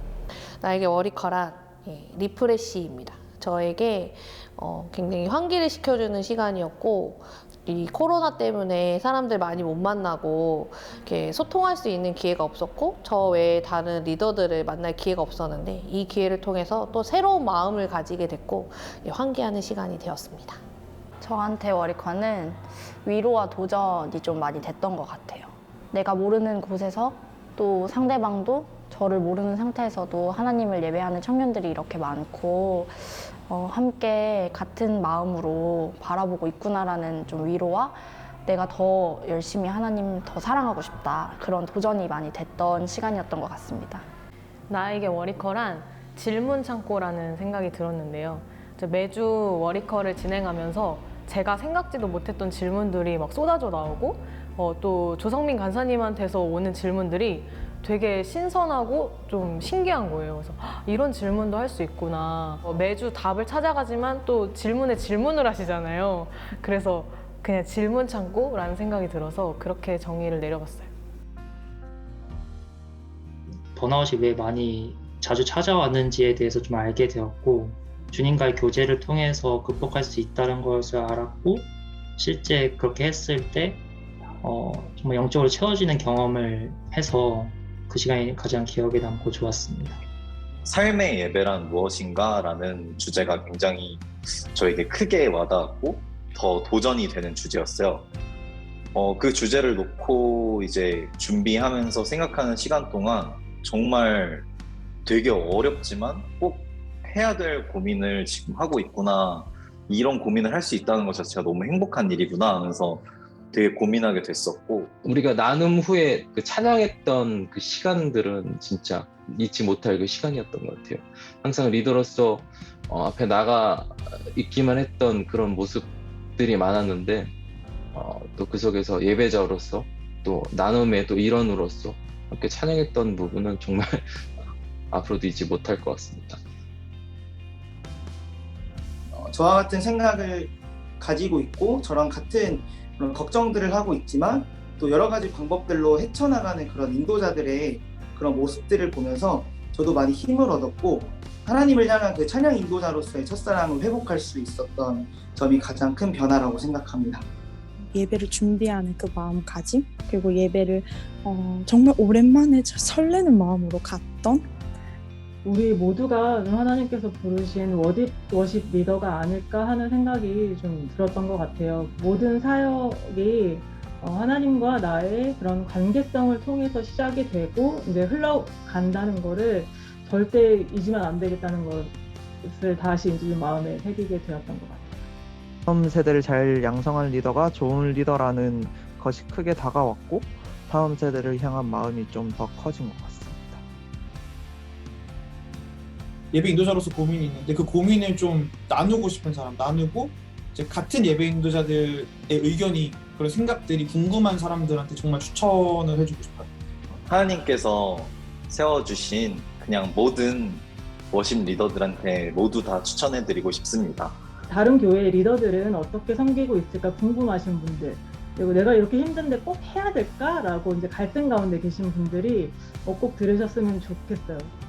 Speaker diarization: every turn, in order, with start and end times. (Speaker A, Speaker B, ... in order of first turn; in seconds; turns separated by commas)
Speaker A: 0.6-20.6, Speaker B: 21.2-44.0, Speaker C: 44.7-70.9, Speaker D: 73.7-83.8, Speaker D: 84.4-90.0, Speaker E: 90.7-98.1, Speaker E: 98.9-104.5, Speaker E: 105.0-114.9, Speaker F: 115.0-127.3, Speaker F: 127.9-136.4, Speaker G: 139.1-157.2, Speaker H: 157.9-164.4, Speaker I: 165.4-181.9, Speaker I: 182.4-184.9, Speaker J: 185.7-193.6, Speaker K: 196.3-206.5, Speaker E: 207.0-214.2, Speaker I: 214.5-224.5